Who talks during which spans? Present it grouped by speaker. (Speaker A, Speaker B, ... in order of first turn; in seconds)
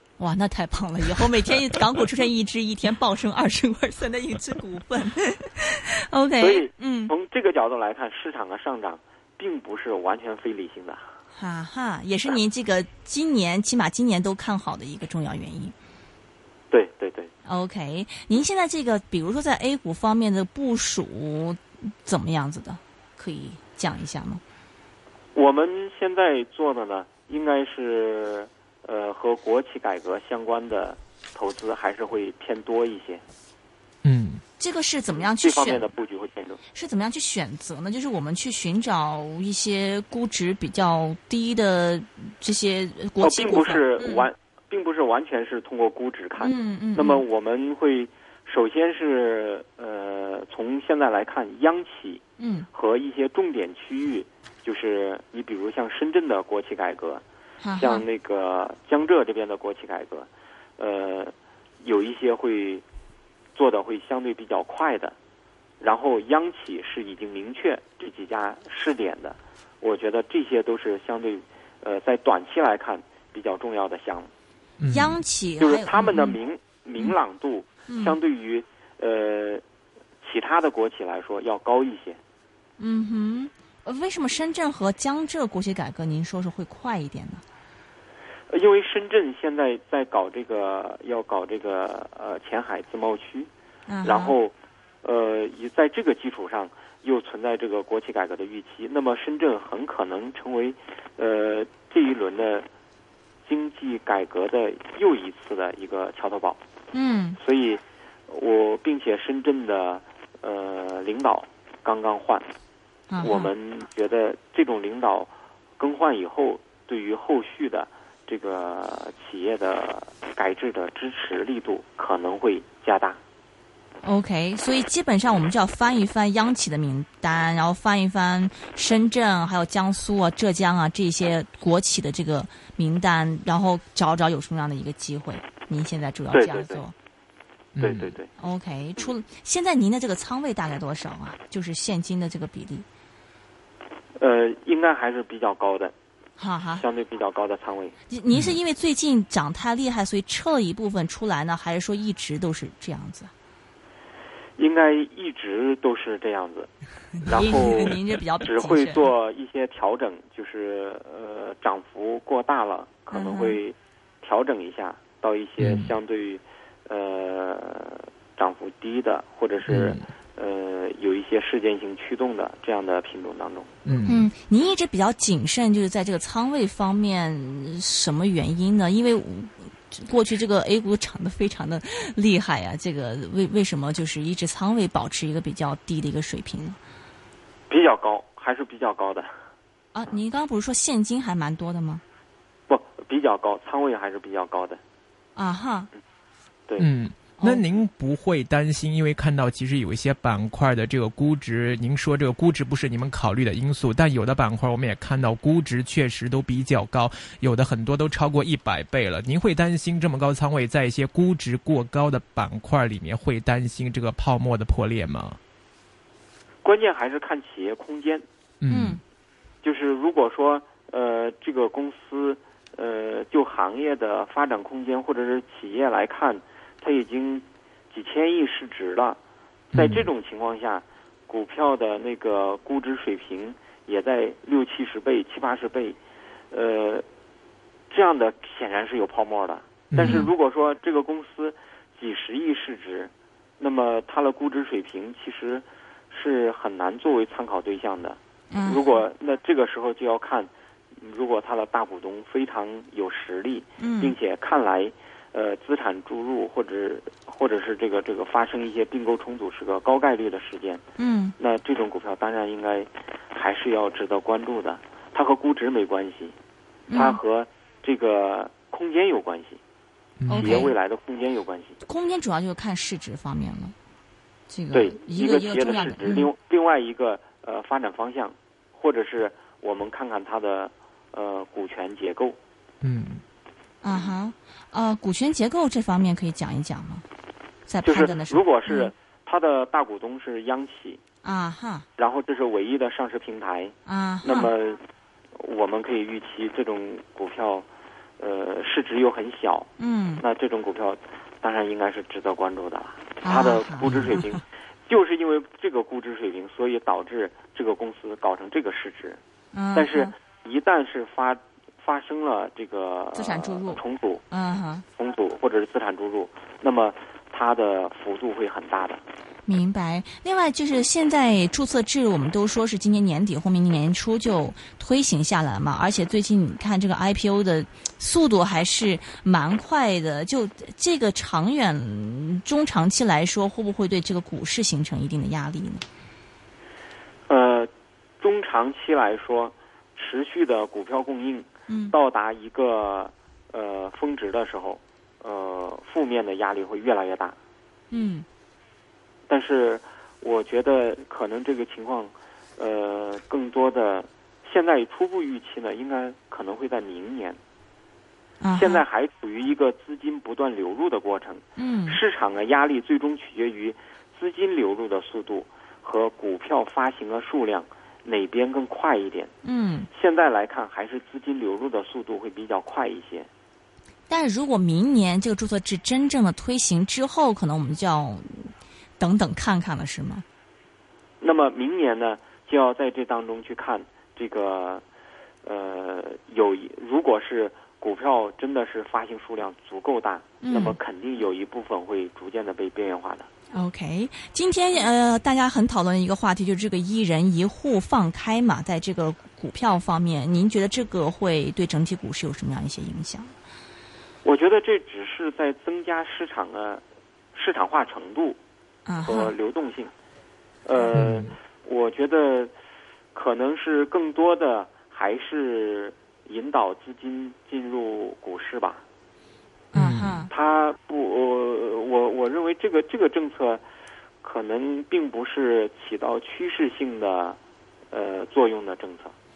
Speaker A: 0.2-7.1, 11.3-15.7, 17.4-24.4, 34.6-35.9, 36.7-44.3, 46.4-47.2, 52.4-52.7, 57.6-58.0, 74.9-76.4, 77.9-78.2, 82.8-87.4, 93.9-94.3, 106.9-107.4, 113.1-113.5, 124.0-136.9, 138.4-142.8, 146.4-146.8, 148.1-153.3, 157.2-159.1, 163.1-163.6, 174.1-186.8, 189.9-192.0, 195.3-195.9, 197.4-197.6, 218.7-219.0, 240.0-240.3, 248.5-249.0, 253.8-254.2, 261.0-261.3, 266.9-267.2, 270.3-270.7, 271.8-273.7, 274.5-276.3, 283.8-287.0, 287.7-288.9, 291.2-291.9, 293.9-294.5, 299.8-300.2, 303.2-304.4, 309.5-310.1, 313.1-314.8, 319.4-335.8, 341.7-341.9, 347.9-348.2, 358.4-358.8, 361.6-362.0, 369.4-369.9, 374.1-380.2, 390.4-390.8, 393.5-403.3, 408.9-409.3, 419.7-420.3
Speaker B: 6.4-11.0, 16.7-17.3, 25.3-33.2, 35.3-36.6, 43.2-57.2, 57.8-62.8, 63.5-65.1, 65.8-74.3, 75.6-79.6, 80.2-82.2, 88.5-93.5, 94.0-102.7, 103.4-106.6, 107.4-112.5, 113.2-123.2, 136.3-136.8, 137.8-138.3, 144.2-145.9, 146.8-147.9, 154.6-156.7, 157.2-173.7, 187.7-189.3, 192.7-194.8, 216.6-218.2, 219.6-229.2, 229.7-236.0, 236.5-237.0, 237.9-260.8, 261.4-266.3, 266.9-269.6, 270.3-271.8, 274.7-282.4, 287.8-291.0, 292.0-294.8, 295.3-297.6, 298.2-309.2, 309.7-314.2, 314.9-319.0, 337.3-347.4, 349.3-357.4, 358.5-369.3, 369.9-373.3, 381.2-384.8, 385.4-393.3, 404.2-406.8, 407.3-408.4, 409.0-409.9, 410.6-412.5, 413.1-418.8, 420.3-423.6, 424.2-427.4, 427.9-429.1
Speaker C: 34.0-34.4, 74.8-75.2, 137.8-138.1, 148.3-148.6, 165.6-165.9, 169.7-170.0, 173.8-174.3, 196.8-215.4, 218.6-219.0, 229.7-230.1, 239.9-240.3, 270.2-270.7, 282.8-283.2, 410.9-411.3, 419.7-420.2